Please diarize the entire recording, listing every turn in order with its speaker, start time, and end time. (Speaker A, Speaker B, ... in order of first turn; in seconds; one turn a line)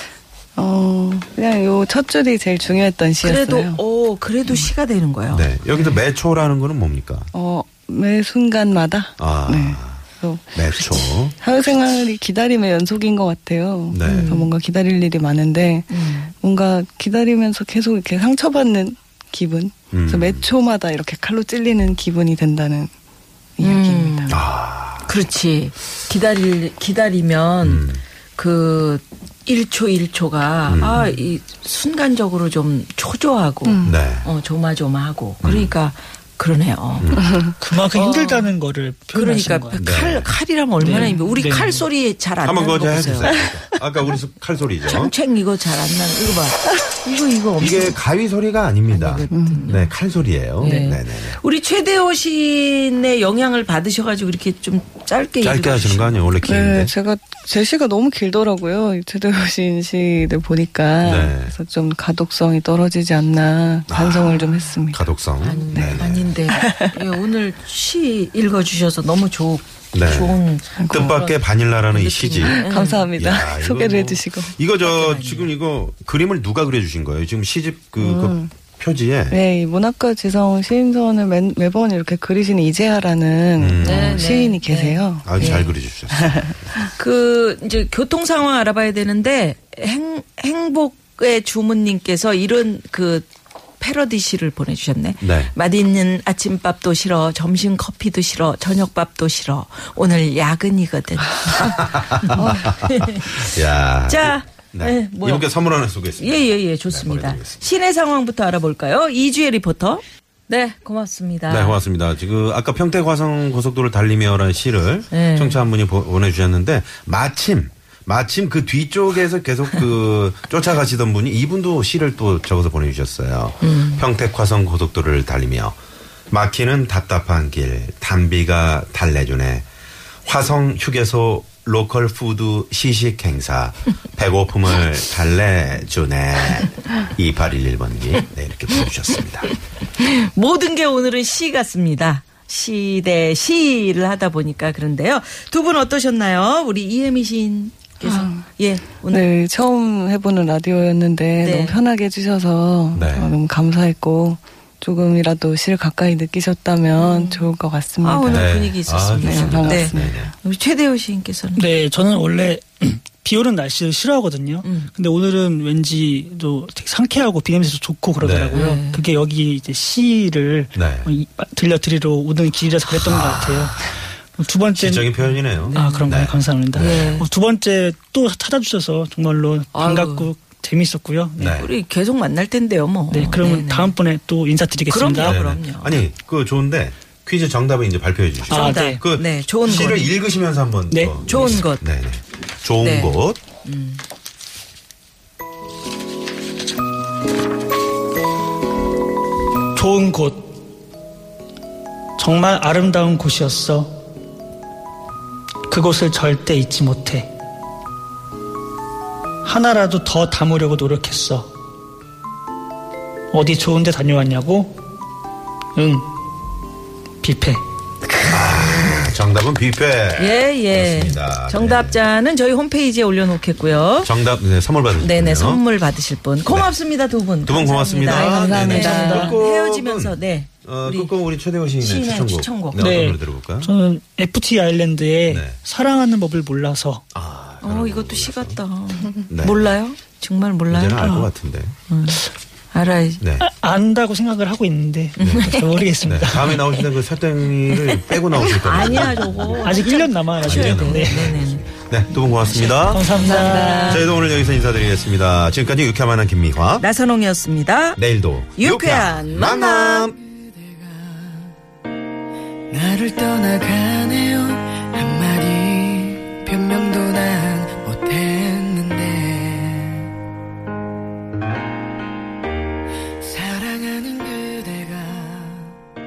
Speaker A: 0.6-3.8
Speaker B: 3.2-5.5
Speaker C: 5.3-7.3
Speaker A: 7.3-10.6
Speaker C: 9.2-10.0
Speaker C: 10.6-11.3
Speaker A: 11.4-22.9
Speaker C: 13.9-14.4
Speaker B: 14.0-14.5
Speaker B: 15.9-16.3
Speaker C: 19.9-20.5
Speaker A: 23.6-24.2
Speaker B: 23.6-24.4
Speaker C: 24.3-25.1
Speaker B: 25.1-37.4
Speaker C: 27.6-28.0
Speaker C: 30.7-31.1
Speaker A: 33.7-34.0
Speaker C: 33.8-34.3
Speaker C: 35.4-35.7
Speaker C: 37.0-37.4
Speaker D: 37.6-39.8
Speaker B: 37.9-38.5
Speaker B: 39.1-43.4
Speaker C: 39.8-40.3
Speaker D: 40.8-41.9
Speaker C: 42.4-45.1
Speaker B: 44.9-48.0
Speaker C: 47.6-51.4
Speaker B: 48.9-49.9
Speaker A: 49.3-49.7
Speaker B: 50.6-56.4
Speaker D: 50.6-50.9
Speaker C: 55.4-56.9
Speaker A: 56.5-65.0
Speaker C: 61.0-61.5
Speaker C: 63.9-66.3
Speaker B: 65.4-73.1
Speaker A: 65.7-66.9
Speaker C: 69.9-79.4
Speaker A: 70.8-71.2
Speaker A: 72.4-74.6
Speaker B: 74.8-75.5
Speaker A: 78.0-78.5
Speaker A: 79.3-85.6
Speaker C: 83.6-84.3
Speaker B: 83.8-85.7
Speaker C: 85.2-86.6
Speaker A: 86.2-86.5
Speaker B: 87.0-93.3
Speaker B: 93.8-105.5
Speaker C: 95.2-95.5
Speaker C: 101.5-107.6
Speaker B: 106.2-111.8
Speaker C: 111.5-125.8
Speaker B: 115.1-115.6
Speaker B: 123.6-124.0
Speaker C: 126.3-129.7
Speaker C: 130.2-139.5
Speaker B: 140.0-149.3
Speaker A: 148.0-148.4
Speaker A: 149.1-158.5
Speaker B: 151.4-151.8
Speaker C: 152.9-153.4
Speaker B: 157.0-157.5
Speaker B: 158.0-161.6
Speaker C: 158.3-160.3
Speaker A: 159.2-160.3
Speaker D: 161.6-181.7
Speaker B: 164.6-164.9
Speaker C: 168.2-168.6
Speaker B: 168.5-169.0
Speaker C: 170.8-171.1
Speaker C: 174.8-177.2
Speaker B: 175.7-176.2
Speaker B: 176.7-177.3
Speaker B: 179.7-180.3
Speaker C: 181.4-181.7
Speaker B: 181.5-183.9
Speaker D: 183.1-185.4
Speaker B: 184.9-186.1
Speaker C: 185.2-193.4
Speaker B: 188.5-190.1
Speaker D: 188.5-189.0
Speaker D: 190.9-191.6
Speaker B: 191.2-191.8
Speaker B: 192.8-194.0
Speaker D: 199.8-200.5
Speaker D: 202.2-203.9
Speaker D: 205.7-207.3
Speaker D: 209.4-211.5
Speaker D: 213.3-214.8
Speaker D: 215.8-216.1
Speaker D: 217.2-217.6
Speaker B: 218.1-219.1
Speaker C: 218.3-222.0
Speaker B: 220.2-224.1
Speaker C: 224.0-225.6
Speaker B: 225.0-231.1
Speaker C: 226.5-226.7
Speaker C: 227.4-233.7
Speaker A: 228.1-229.1
Speaker D: 228.4-229.4
Speaker B: 231.8-233.0
Speaker D: 232.8-237.0
Speaker C: 235.3-235.6
Speaker C: 237.1-238.6
Speaker B: 237.6-241.2
Speaker C: 239.3-239.7
Speaker C: 240.7-241.8
Speaker B: 241.9-243.2
Speaker C: 243.2-243.5
Speaker D: 243.4-246.6
Speaker B: 245.2-245.7
Speaker C: 245.2-249.7
Speaker B: 247.7-251.7
Speaker D: 249.6-251.4
Speaker C: 250.4-253.1
Speaker D: 252.7-254.1
Speaker B: 253.1-254.0
Speaker C: 253.9-256.9
Speaker B: 256.8-258.0
Speaker C: 258.0-260.2
Speaker B: 258.6-260.1
Speaker E: 262.7-269.9
Speaker E: 273.2-275.7